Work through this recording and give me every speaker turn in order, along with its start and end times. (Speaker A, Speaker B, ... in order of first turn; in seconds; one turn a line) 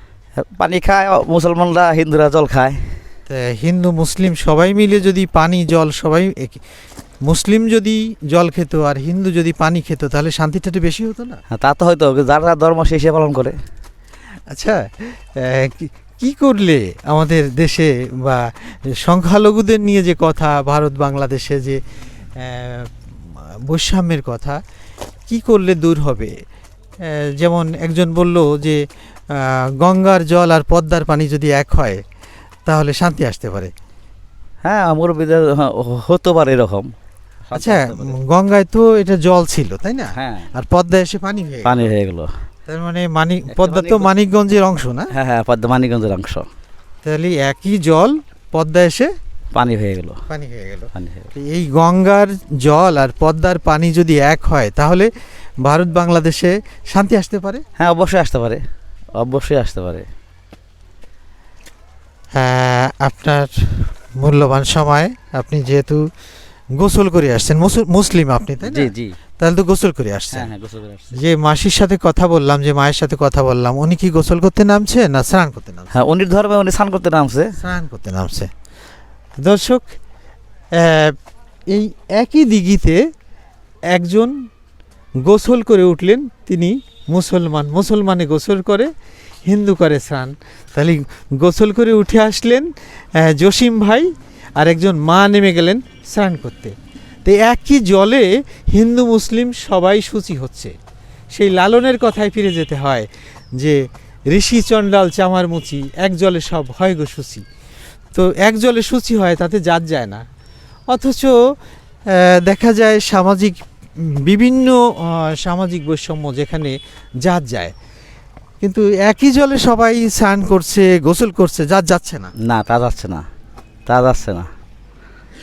Speaker A: 0.4-3.0
Speaker B: 3.3-6.6
Speaker B: 7.2-11.4
Speaker A: 11.5-13.5
Speaker B: 14.5-21.8
Speaker B: 22.4-24.6
Speaker B: 25.3-26.3
Speaker B: 27.0-32.0
Speaker B: 32.6-33.7
Speaker A: 34.6-36.9
Speaker A: 37.5-38.1
Speaker B: 37.5-41.9
Speaker A: 40.1-40.5
Speaker A: 41.6-42.3
Speaker B: 42.7-45.1
Speaker A: 43.5-44.1
Speaker A: 45.1-46.5
Speaker B: 47.0-49.1
Speaker A: 49.5-50.2
Speaker B: 50.3-55.1
Speaker A: 50.9-51.3
Speaker B: 55.6-57.6
Speaker A: 57.8-58.6
Speaker A: 59.2-60.1
Speaker B: 62.3-66.0
Speaker B: 66.8-70.5
Speaker A: 68.6-69.2
Speaker A: 70.3-71.2
Speaker B: 71.1-76.0
Speaker A: 75.9-77.5
Speaker B: 77.5-78.5
Speaker B: 79.4-79.9
Speaker B: 80.8-81.2
Speaker B: 81.7-83.0
Speaker B: 83.9-84.3
Speaker B: 85.2-88.9
Speaker B: 89.5-100.7
Speaker B: 101.3-103.8
Speaker B: 104.3-107.4
Speaker B: 108.1-110.2
Speaker B: 110.9-111.3
Speaker B: 112.1-117.7
Speaker B: 118.6-122.3
Speaker A: 122.4-123.2
Speaker A: 123.9-124.5